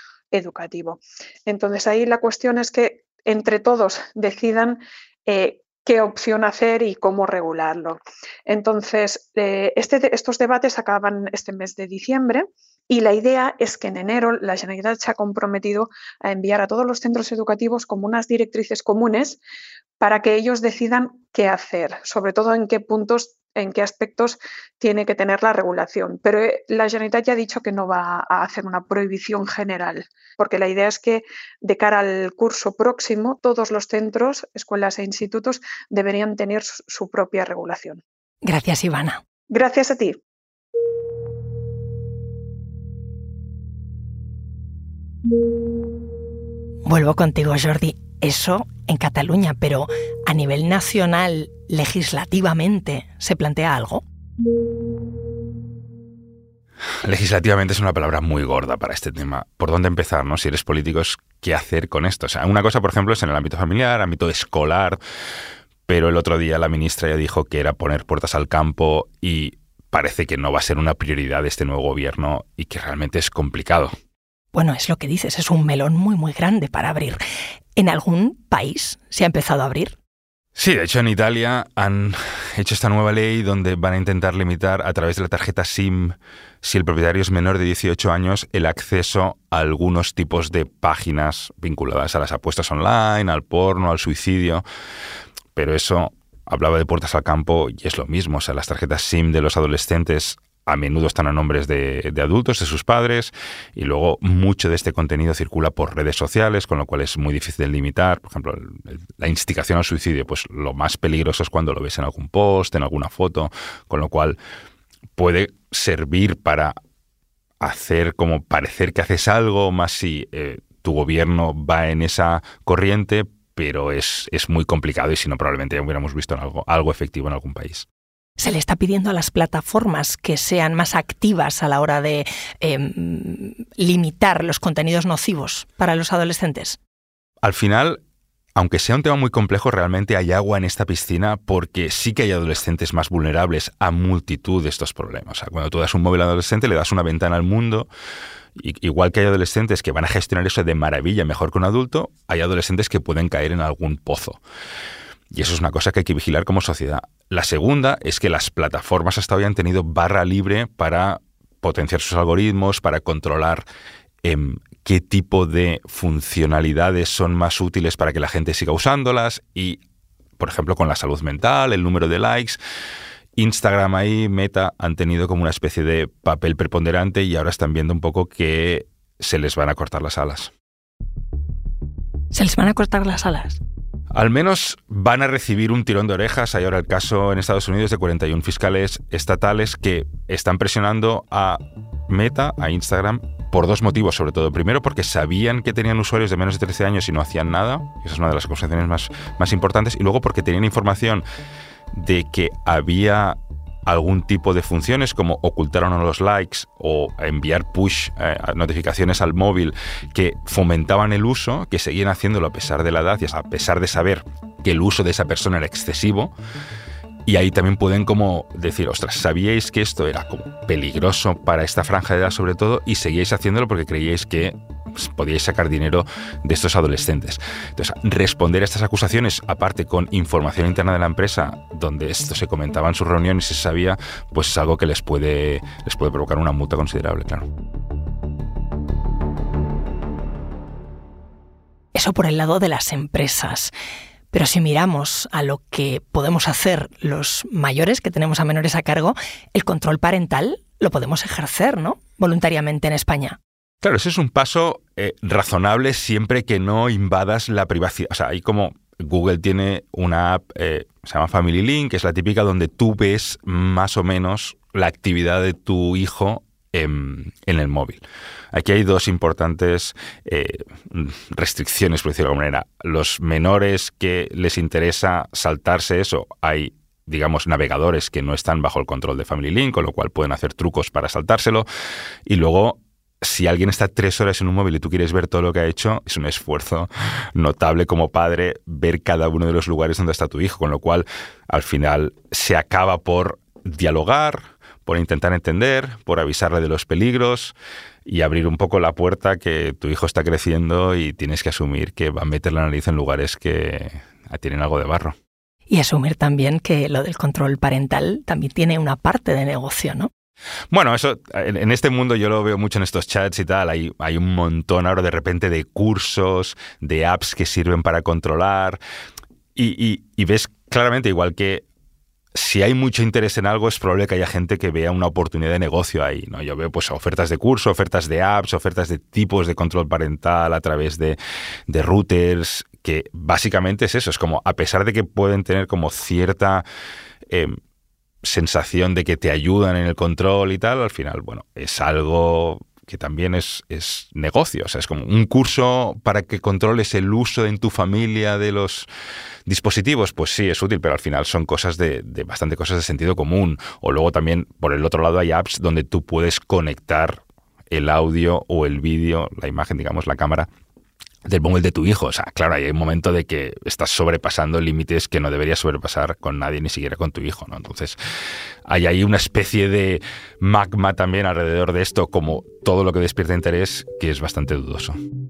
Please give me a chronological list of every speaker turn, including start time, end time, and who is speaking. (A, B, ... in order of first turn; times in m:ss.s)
0:00.3-0:19.4 A
0:20.0-0:38.0 A
0:38.4-0:39.2 B
0:39.5-0:40.2 A
0:46.8-0:54.0 B
0:57.0-1:05.0 C
1:05.9-1:13.9 C
1:14.5-1:17.2 B
1:17.8-1:20.0 B
1:20.6-1:34.6 C
1:35.5-1:54.4 C
1:55.2-1:56.7 C
1:57.6-2:07.8 C
2:08.4-2:16.8 B
2:17.4-2:18.0 C
2:18.6-2:27.9 C
2:28.6-2:34.4 C
2:35.3-2:43.6 C
2:44.2-2:49.8 C
2:50.4-2:52.6 C
2:53.4-3:00.5 C
3:02.3-3:03.6 B
3:04.1-3:21.2 C
3:21.9-3:36.3 C
3:37.2-3:57.5 C
4:01.9-4:03.7 B
4:04.3-4:13.4 B
4:13.8-4:41.7 C
4:42.2-4:57.5 C
4:58.0-5:05.2 C
5:05.7-5:10.1 B
5:10.7-5:18.8 C
5:19.6-5:21.6 C
5:22.3-5:36.6 C
5:37.3-5:37.6 C
5:38.2-5:48.9 C
5:49.5-6:00.5 C
6:01.2-6:08.0 C
6:08.7-6:15.0 C